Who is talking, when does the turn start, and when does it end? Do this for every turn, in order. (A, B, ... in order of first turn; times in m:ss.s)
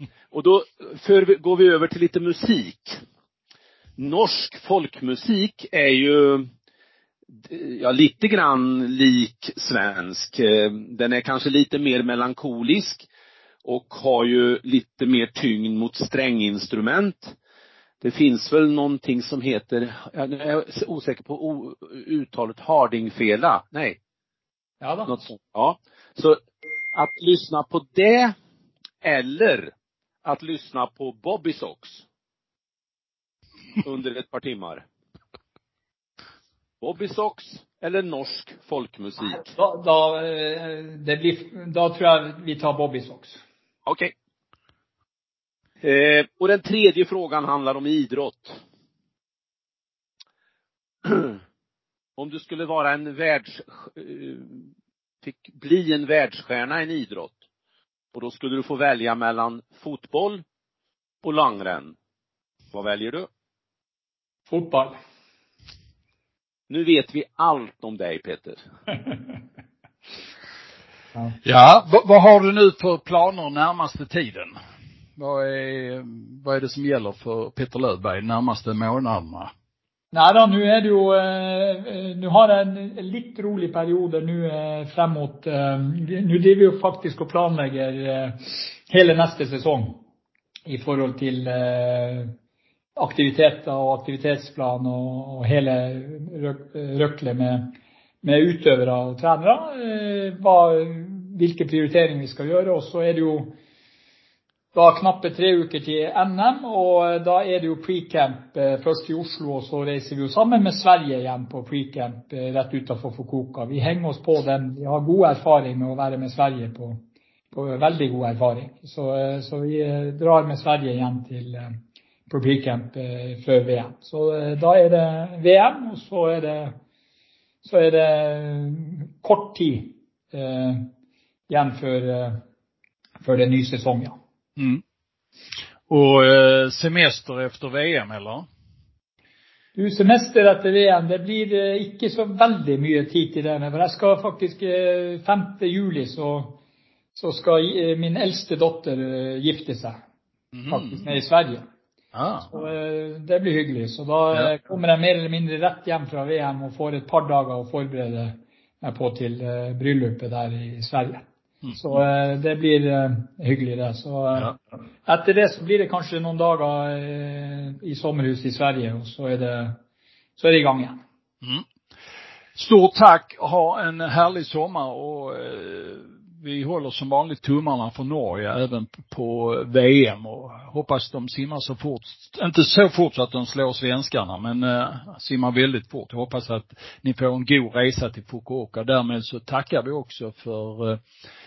0:00.3-0:03.0 A
0:04.0-0:06.5 A
0:07.4-0:13.1 A
0:13.6-0:17.4 A
0:18.0-0:24.0 A
0:24.8-0:25.2 B
0:25.1-0:26.4 A
0:26.9-0:28.3 A
0:29.0-0:29.7 A
0:30.2-0:32.0 A
0:33.8-0:34.8 A
0:36.8-0:39.5 A
0:39.4-0:43.4 B
0:43.9-0:44.1 A
0:45.8-0:48.6 A
0:51.0-0:51.4 A
0:52.2-0:54.7 A
0:55.2-0:57.4 A
0:58.1-1:00.4 A
1:01.2-1:02.0 A
1:02.7-1:03.3 A
1:04.5-1:05.0 B
1:06.7-1:08.6 A
1:11.4-1:14.5 C
1:15.2-1:19.5 C
1:20.1-1:30.0 B
1:30.7-1:32.3 B
1:33.0-1:43.6 B
1:44.7-1:57.0 B
1:57.5-2:01.8 B
2:02.3-2:06.8 B
2:07.6-2:10.9 B
2:11.5-2:12.4 B
2:13.2-2:14.2 B
2:15.9-2:18.5 C
2:19.8-2:26.6 B
2:27.2-2:30.0 B
2:30.5-2:31.0 C
2:30.7-2:31.6 B
2:32.1-2:32.5 C
2:32.5-2:49.8 B
2:50.4-2:51.0 B
2:52.6-3:11.0 C